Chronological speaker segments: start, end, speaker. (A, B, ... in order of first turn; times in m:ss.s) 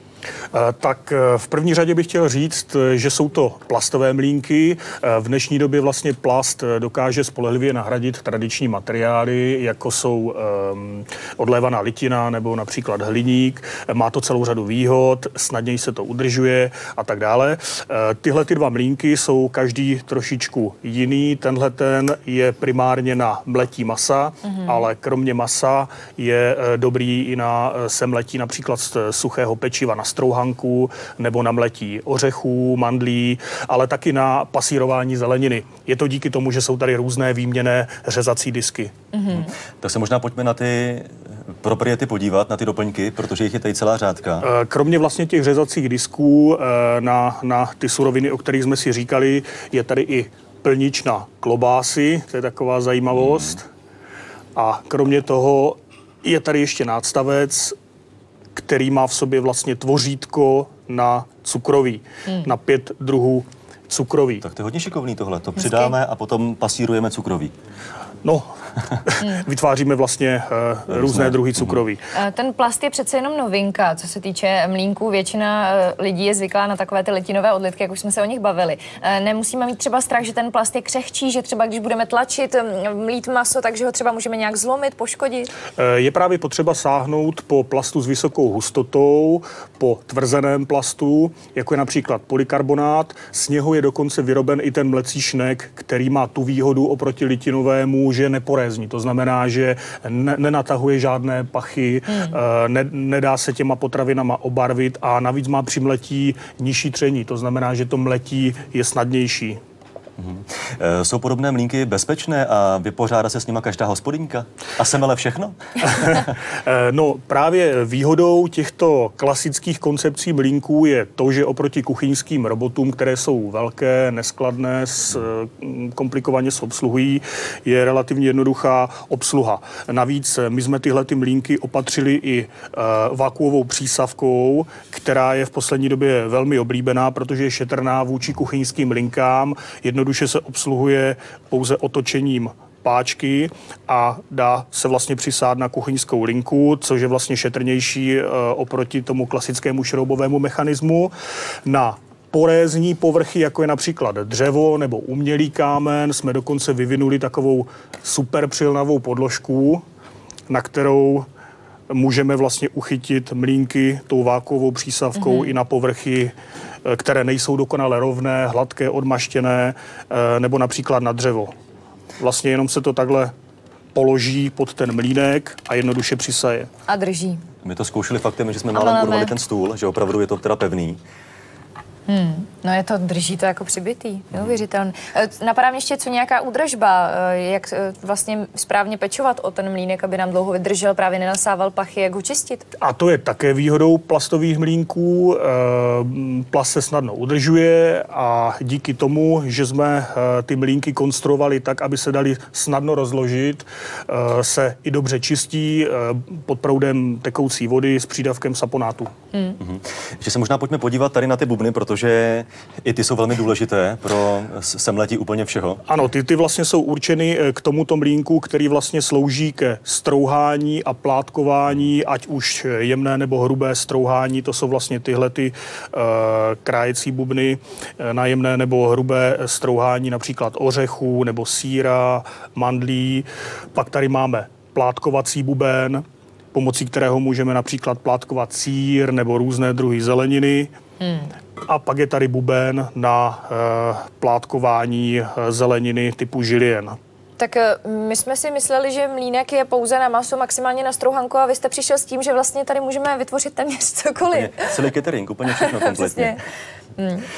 0:00.5-0:39.0 A
0:39.1-0:39.5 B
0:39.3-0:44.4 C
0:44.4-0:53.7 A
0:54.5-0:57.8 A
0:58.5-1:04.4 A
1:04.4-1:07.5 C
1:05.6-1:05.9 B
1:08.2-1:12.1 A
1:10.9-1:11.8 C
1:12.1-1:25.5 B
1:25.7-1:49.6 A
1:50.2-1:56.3 C
1:55.8-2:31.1 A
2:31.6-2:39.8 A
2:40.5-2:41.2 A
2:41.9-2:46.3 A
2:45.2-2:45.5 B
2:46.8-2:51.5 A
2:52.2-2:53.3 A
2:53.9-2:56.7 A
2:56.9-2:57.4 B
2:57.6-3:01.0 C
2:58.7-2:59.3 B
3:02.1-3:12.6 B
3:12.8-3:29.1 A
3:29.6-3:35.8 C
3:35.8-4:00.7 A
4:01.6-4:07.0 A
4:07.4-4:14.9 B
4:14.3-4:16.4 C
4:15.4-4:16.4 B
4:17.0-4:17.3 B